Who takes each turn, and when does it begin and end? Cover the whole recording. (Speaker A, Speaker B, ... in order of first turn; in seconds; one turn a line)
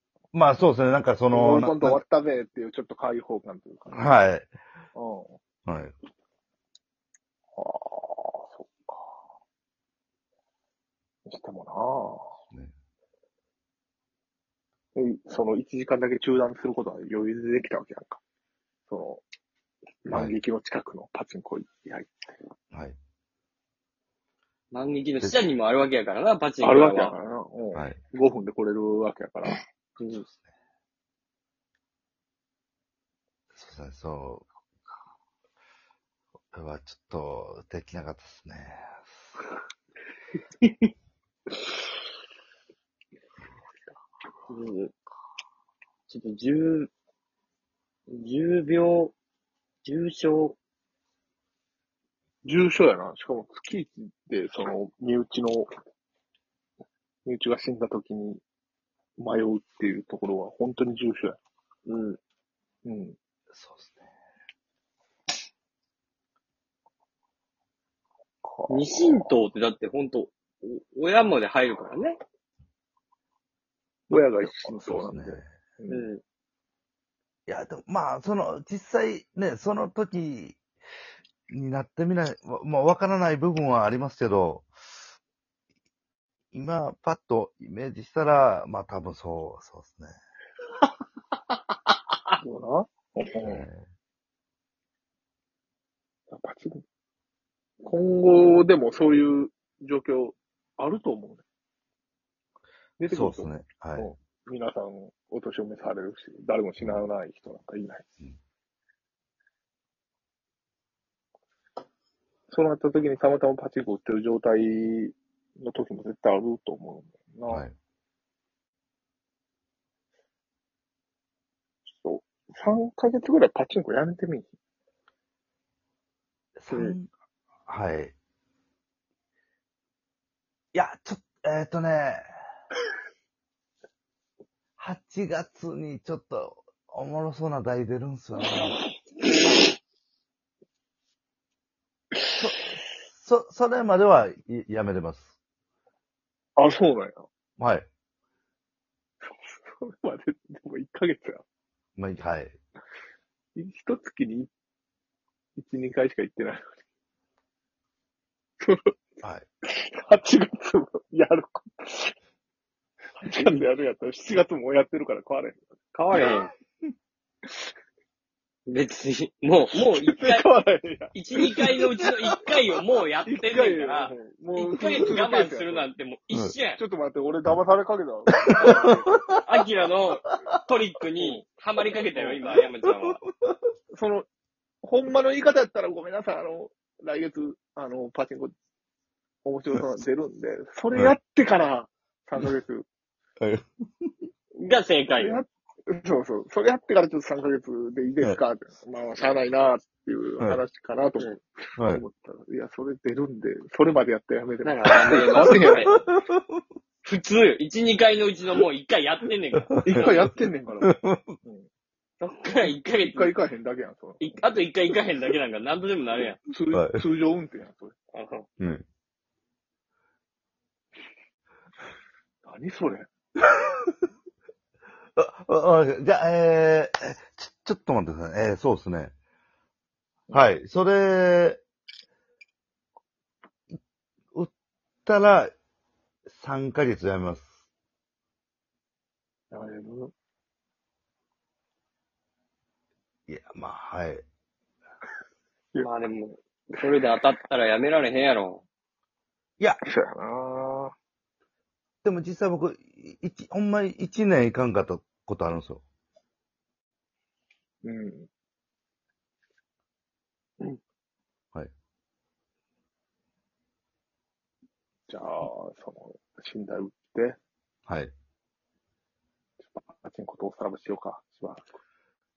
Speaker A: 0.3-2.0
Speaker B: 1.3-4.1
Speaker A: 3.9-4.5
Speaker B: 4.9-5.4
Speaker A: 5.7-5.9
Speaker B: 7.5-9.2
Speaker B: 11.3-12.3
Speaker B: 14.9-18.2
Speaker B: 18.9-19.2
Speaker B: 20.0-22.4
Speaker A: 22.7-23.0
Speaker C: 24.7-27.2
Speaker B: 26.6-29.6
Speaker A: 30.1-30.5
Speaker A: 33.5-34.5
Speaker A: 36.5-39.3
Speaker C: 40.6-40.9
Speaker C: 44.5-44.9
Speaker C: 46.1-46.9
Speaker C: 48.1-49.1
Speaker C: 49.8-50.6
Speaker B: 52.4-55.7
Speaker B: 57.2-58.4
Speaker B: 59.2-61.4
Speaker C: 61.9-62.2
Speaker B: 62.8-63.1
Speaker A: 63.5-64.0
Speaker B: 68.4-69.3
Speaker C: 68.7-72.2
Speaker B: 74.1-76.1
Speaker A: 74.1-75.5
Speaker C: 75.9-76.2
Speaker A: 77.5-80.6
Speaker A: 81.5-84.7
Speaker A: 86.5-90.1
Speaker B: 92.4-93.6
Speaker A: 93.4-93.9
Speaker B: 96.3-96.8
Speaker B: 97.8-101.4
Speaker B: 103.0-108.0
Speaker A: 103.1-104.1
Speaker B: 112.5-117.6
Speaker A: 117.5-117.7
Speaker B: 122.0-124.5
Speaker A: 126.6-127.1
Speaker B: 126.7-127.0
Speaker A: 127.7-128.1
Speaker A: 130.7-132.2
Speaker A: 134.8-138.8
Speaker A: 142.4-145.3
Speaker B: 146.6-147.3
Speaker A: 147.6-147.9
Speaker B: 149.2-151.4
Speaker A: 152.0-152.6
Speaker B: 153.6-154.5
Speaker B: 155.6-156.7
Speaker B: 158.6-158.9
Speaker B: 159.6-162.1
Speaker B: 163.2-165.6
Speaker C: 165.9-166.5
Speaker C: 168.7-170.4
Speaker B: 169.7-171.8
Speaker C: 171.1-176.8
Speaker B: 173.2-175.9
Speaker B: 176.8-179.4
Speaker A: 178.5-179.4
Speaker C: 179.4-183.2
Speaker B: 181.2-182.4
Speaker A: 183.0-183.5
Speaker B: 183.9-184.3
Speaker B: 184.8-188.5
Speaker B: 189.4-192.8
Speaker A: 193.4-194.1
Speaker C: 194.6-195.4
Speaker B: 195.1-205.9
Speaker A: 201.8-202.0
Speaker C: 204.6-205.9
Speaker A: 204.8-206.4
Speaker C: 207.0-210.2
Speaker A: 209.7-211.3
Speaker B: 209.8-211.7
Speaker C: 212.2-213.3
Speaker B: 212.6-214.5
Speaker C: 214.2-216.4
Speaker B: 216.1-217.9
Speaker A: 216.7-217.0
Speaker C: 218.1-218.5
Speaker A: 218.6-218.8
Speaker B: 222.4-223.1
Speaker A: 225.2-229.1
Speaker A: 230.3-231.6
Speaker A: 235.0-235.5
Speaker A: 236.3-237.5
Speaker B: 239.5-240.1
Speaker A: 243.3-244.2
Speaker C: 245.8-248.6
Speaker B: 249.8-250.9
Speaker A: 252.0-255.8
Speaker B: 257.8-258.3
Speaker B: 265.1-267.4
Speaker A: 267.9-268.1
Speaker B: 269.6-271.8